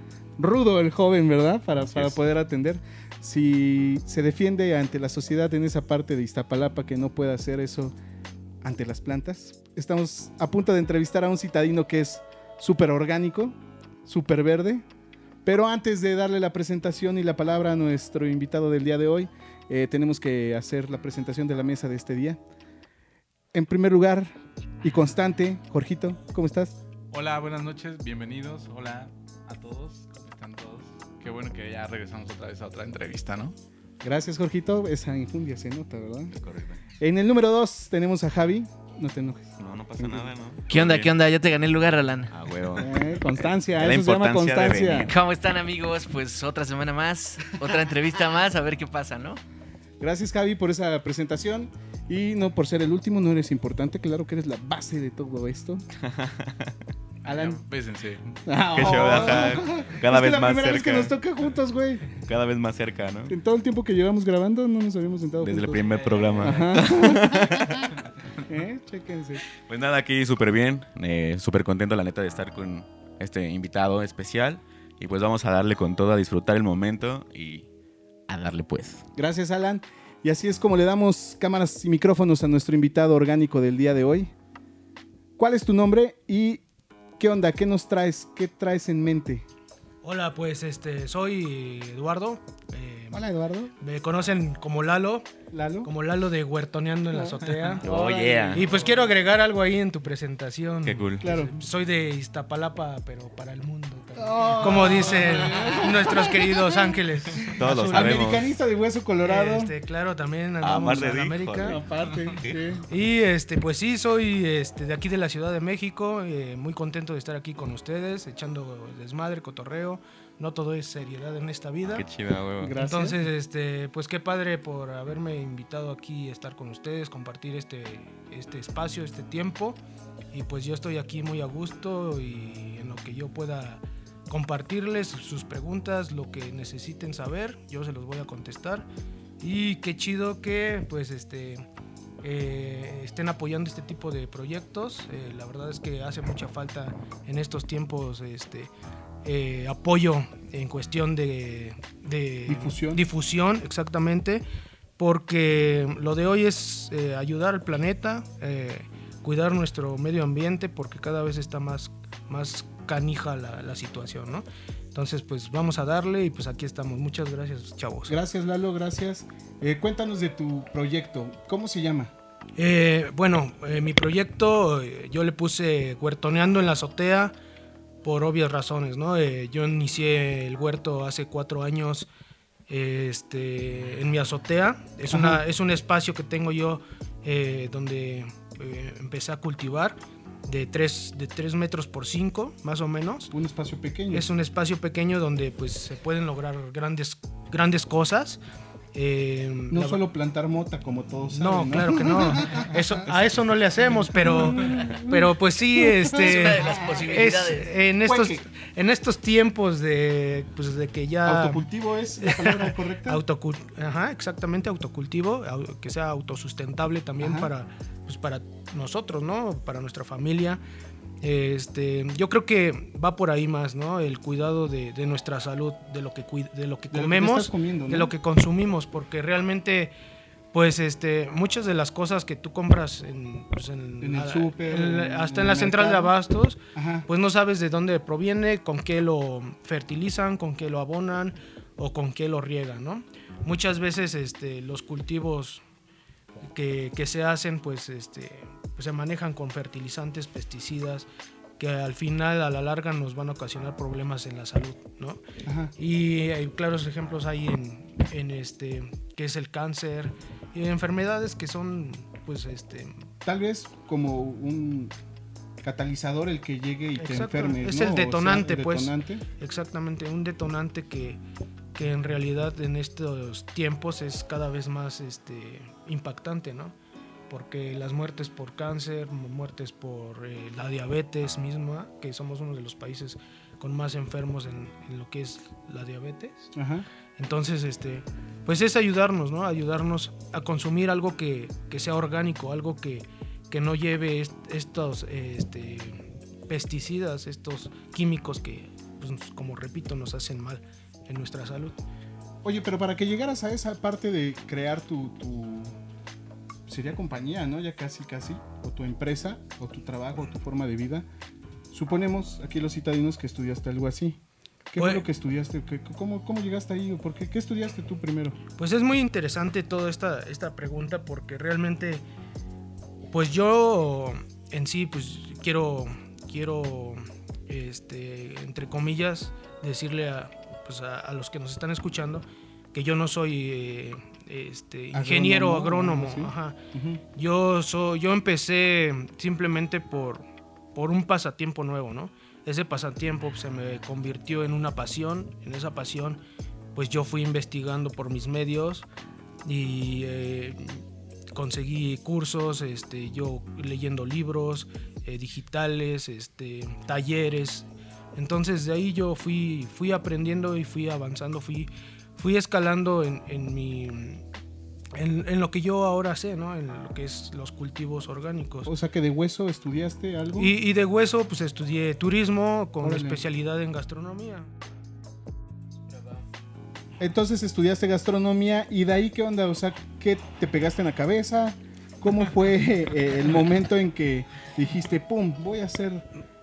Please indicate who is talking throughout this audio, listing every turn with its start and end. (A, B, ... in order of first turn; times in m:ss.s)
0:00.4-0:07.9 A
0:08.6-0:14.8 A
0:15.4-0:22.4 A
0:23.5-0:24.3 A
0:24.8-0:26.8 A
0:27.1-0:33.6 B
0:34.0-0:36.3 A
0:36.3-0:36.8 C
0:37.0-0:40.3 A
0:39.6-0:41.1 C
0:40.7-0:42.8 D
0:42.3-0:43.0 C
0:42.7-0:45.1 A
0:43.6-0:45.1 C
0:45.1-0:49.4 D
0:50.0-0:55.8 A
0:56.0-0:56.8 C
0:57.2-0:58.9 B
0:57.2-0:57.6 A
0:58.4-1:02.1 A
0:58.7-1:01.1 C
1:02.1-1:03.4 C
1:03.3-1:07.9 A
1:05.4-1:07.9 C
1:08.4-1:09.4 A
1:09.6-1:17.7 C
1:18.3-1:19.0 C
1:19.2-1:24.3 A
1:25.4-1:26.6 A
1:27.2-1:29.4 A
1:30.0-1:33.3 E
1:33.1-1:33.7 A
1:33.8-1:35.3 E
1:35.5-1:35.9 A
1:35.8-1:37.8 E
1:37.8-1:38.7 C
1:37.9-1:38.5 D
1:38.5-1:48.4 E
1:40.8-1:41.3 C
1:41.2-1:41.6 A
1:44.2-1:46.9 A
1:47.6-1:48.5 C
1:47.9-1:49.7 A
1:49.2-1:51.8 E
1:50.6-1:51.8 C
1:51.6-1:52.8 A
1:52.9-2:02.1 E
2:01.9-2:02.8 C
2:02.6-2:03.2 A
2:02.8-2:09.8 E
2:10.3-2:18.9 E
2:19.4-2:21.7 E
2:22.2-2:28.7 E
2:29.2-2:34.4 E
2:32.5-2:33.0 A
2:35.0-2:48.2 E
2:48.1-2:52.1 A
2:52.6-2:57.3 E
2:58.0-3:02.1 E
3:02.7-3:13.3 E
3:05.1-3:05.4 A
3:13.3-3:14.3 A
3:14.1-3:18.4 E
3:18.9-3:20.0 E
3:19.7-3:23.2 A
3:21.3-3:31.7 E
3:24.1-3:27.2 A
3:26.1-3:27.7 D
3:28.0-3:28.4 A
3:31.2-3:33.2 A
3:32.2-3:40.6 E
3:37.2-3:37.5 A
3:41.2-3:49.9 E
3:46.9-3:48.1 A
3:50.5-4:05.6 E
3:54.0-3:56.1 A
3:56.8-3:57.1 A
4:06.5-4:11.1 E
4:11.6-4:15.2 E
4:15.4-4:15.7 A
4:15.8-4:23.1 E
4:23.2-4:24.9 A
4:25.6-4:29.2 A
4:27.0-4:31.2 E
4:31.8-4:36.7 E
4:37.3-4:46.5 E
4:46.6-4:46.9 A
4:47.2-5:01.8 E
5:02.4-5:05.8 A
5:06.7-5:11.1 A
5:11.7-5:14.2 A
5:14.7-5:18.4 A
5:14.8-5:15.0 E
5:18.6-5:22.0 E
5:23.1-5:36.6 E
5:34.9-5:37.0 A
5:37.1-5:46.2 E
5:46.8-5:48.9 E
5:49.4-6:04.2 E
6:04.9-6:08.7 E
6:08.6-6:10.5 A
6:10.4-6:14.5 E
6:12.8-6:13.2 A
6:17.0-6:26.0 A